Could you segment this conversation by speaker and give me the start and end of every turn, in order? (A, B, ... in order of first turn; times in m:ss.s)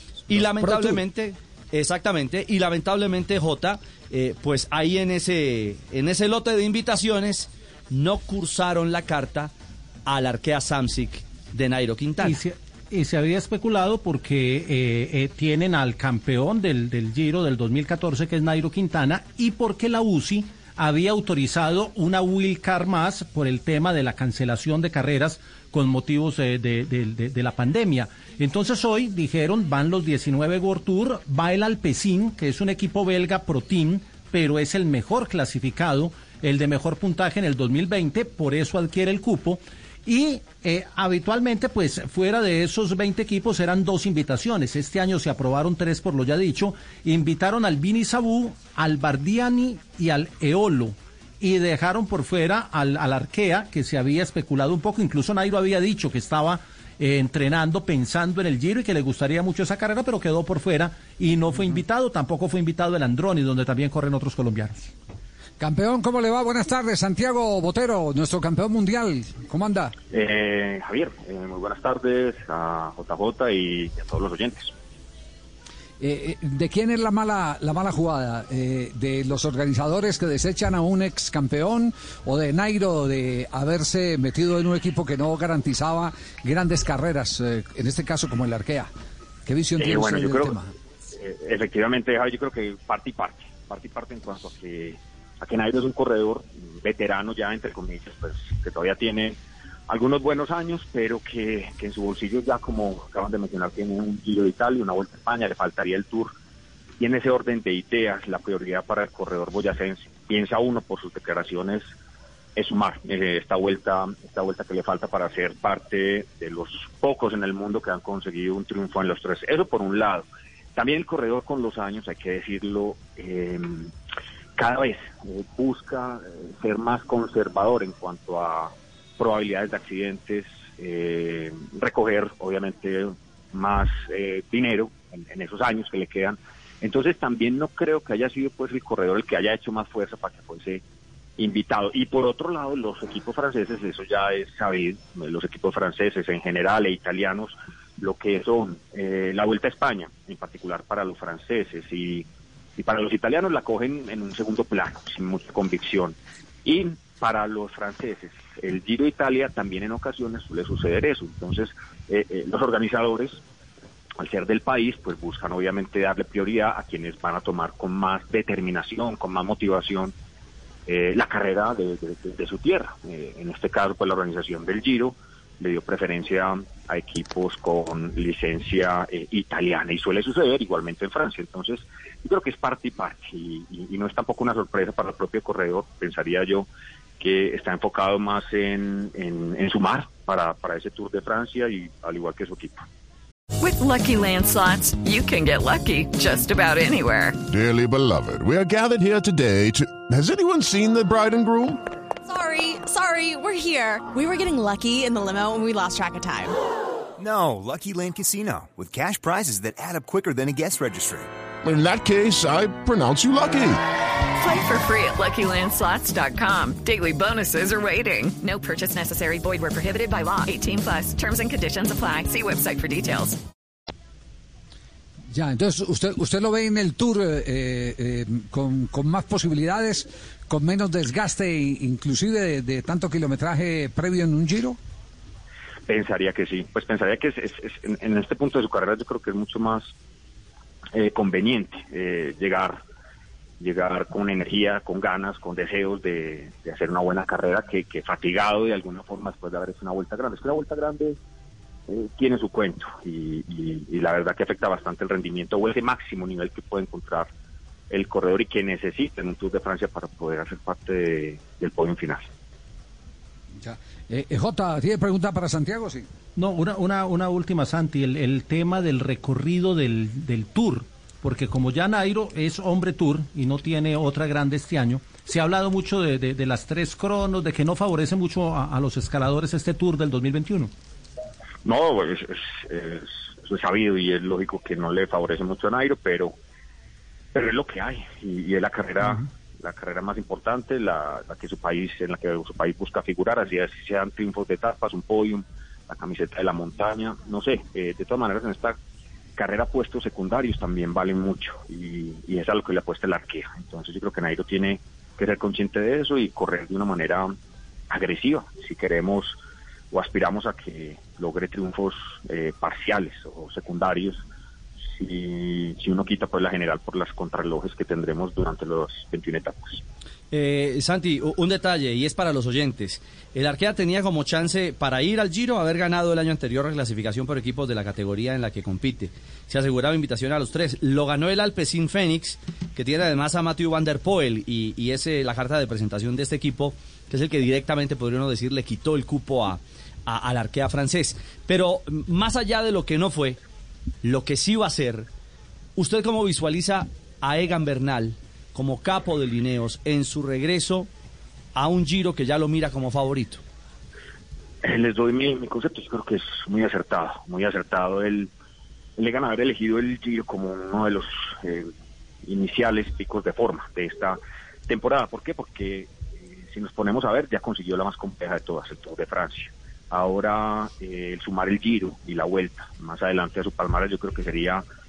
0:00.3-0:09.5 A
0:00.6-0:01.0 B
0:10.1-0:12.4 A
0:12.2-1:04.9 C
1:05.6-1:09.9 B
1:10.1-1:14.7 D
1:16.0-1:28.9 B
1:29.5-1:30.7 B
1:29.8-1:30.6 D
1:31.1-1:39.4 D
1:39.9-1:46.3 D
1:47.0-1:51.8 D
1:52.6-2:03.9 D
2:04.6-2:20.8 D
2:21.4-2:32.2 D
2:32.8-2:43.4 D
2:44.2-2:50.1 D
2:50.9-3:06.7 D
3:07.2-3:12.8 D
3:13.6-3:17.4 E
3:17.5-3:21.8 F
3:22.2-3:26.6 G
3:27.2-3:31.3 H
3:31.6-3:33.8 F
3:34.4-3:43.4 E
3:45.3-3:54.8 B
3:55.9-3:59.9 D
4:00.9-4:02.8 D
4:03.6-4:11.2 D
4:11.9-4:17.3 D
4:17.9-4:22.2 D
4:23.6-4:26.1 B
4:26.4-4:40.7 C
4:41.6-4:46.3 D
4:47.3-4:58.8 D
4:59.4-5:07.4 D
5:07.9-5:09.4 D
5:09.9-5:14.2 D
5:15.0-5:19.8 D
5:20.3-5:43.4 A
5:44.0-5:45.1 A
5:45.8-5:50.9 A
5:51.6-5:53.4 A
5:54.6-5:58.3 D
5:59.0-6:01.7 D
6:02.2-6:14.6 D